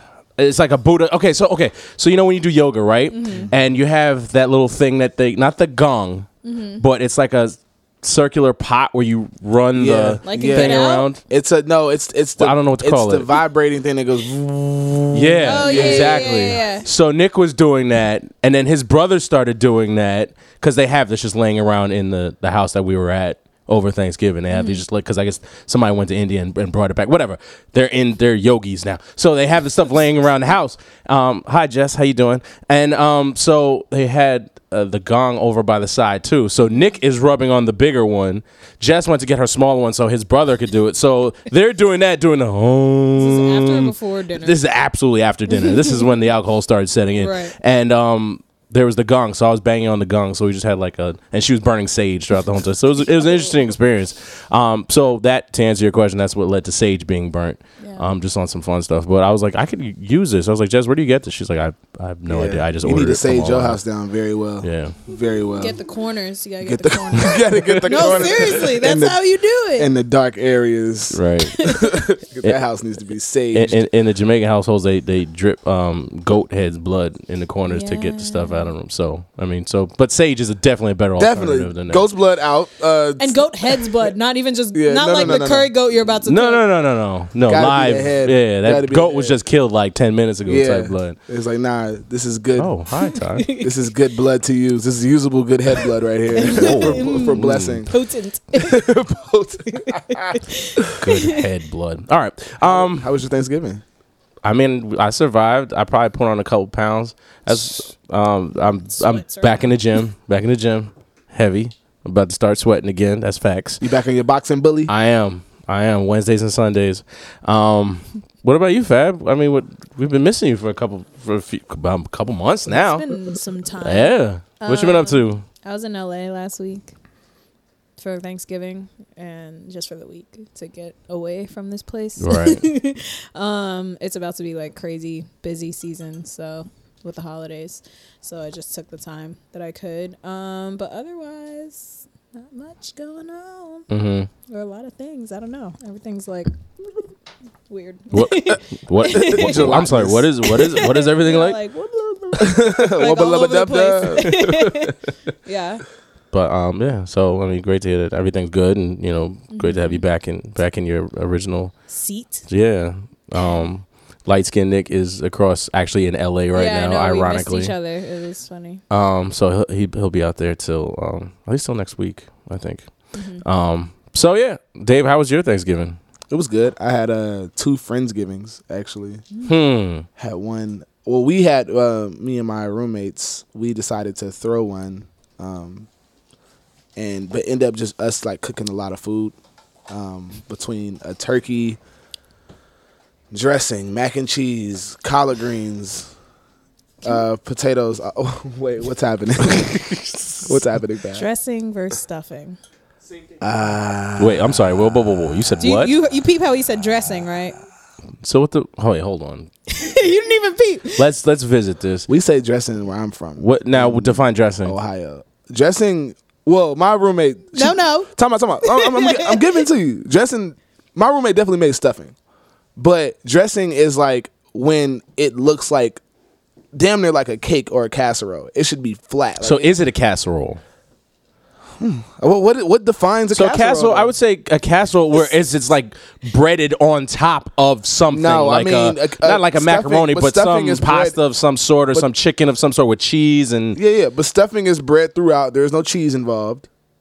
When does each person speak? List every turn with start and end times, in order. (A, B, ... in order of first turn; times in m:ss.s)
0:00.4-0:11.2 A
0:03.1-0:03.5 B
0:06.4-0:06.8 B
0:09.8-0:16.4 C
0:10.2-0:11.1 B
0:12.4-0:13.3 A
0:15.1-1:03.8 A
0:15.4-0:16.8 B
0:24.5-0:24.8 B
0:43.2-0:44.6 B
0:45.5-0:46.1 B
0:47.2-0:47.5 B
0:53.0-0:53.5 B
0:57.8-0:58.1 B
1:02.3-1:05.8 C
1:04.6-1:04.9 A
1:05.6-1:09.9 B
1:06.6-1:09.2 C
1:07.6-1:08.4 A
1:09.7-1:13.8 C
1:11.1-1:11.6 A
1:11.5-1:12.0 B
1:13.5-1:22.0 A
1:17.7-1:18.7 B
1:21.2-1:23.9 C
1:23.2-1:26.6 B
1:24.7-1:25.7 C
1:26.2-1:31.2 A
1:27.4-1:29.4 C
1:30.4-1:32.7 C
1:32.6-1:33.5 A
1:33.4-1:33.7 B
1:33.6-1:37.9 C
1:36.3-1:38.9 B
1:36.4-1:37.8 A
1:38.6-1:40.4 C
1:39.7-1:41.4 B
1:41.0-1:43.1 A
1:42.6-1:43.8 C
1:44.4-1:53.8 A
1:48.9-1:50.0 B
1:53.8-1:54.9 C
1:54.9-2:03.1 A
2:02.7-2:06.9 B
2:03.8-2:05.4 A
2:08.0-2:23.9 B
2:12.2-2:12.6 A
2:23.9-2:24.3 A
2:24.5-2:27.0 B
2:27.7-2:34.9 B
2:28.1-2:31.6 A
2:29.1-2:30.3 C
2:32.4-2:34.9 C
2:35.4-2:35.8 B
2:36.3-2:41.7 A
2:39.5-2:40.0 B
2:41.9-2:42.4 B
2:42.5-2:47.7 A
2:46.5-2:48.8 B
2:48.9-2:52.9 A
2:53.1-2:53.4 B
2:53.4-2:56.0 A
2:56.3-2:59.2 C
2:59.4-3:00.1 A
3:00.2-3:05.9 C
3:07.0-3:09.3 C
3:09.9-3:11.8 C
3:13.3-3:16.1 C
3:17.0-3:21.2 C
3:19.9-3:20.3 A
3:21.1-3:22.6 B
3:23.4-3:25.5 C
3:24.2-3:25.9 A
3:25.6-3:27.6 B
3:28.2-3:29.5 A
3:29.7-3:31.1 B
3:31.0-3:32.1 A
3:32.1-3:42.1 C
3:33.4-3:34.7 A
3:37.5-3:38.1 B
3:38.6-3:39.5 B
3:42.8-3:46.0 C
3:46.7-3:49.7 C
3:49.4-3:50.6 A
3:51.8-3:54.1 C
3:53.3-4:03.8 A
3:58.1-4:01.2 C
4:03.7-4:06.7 C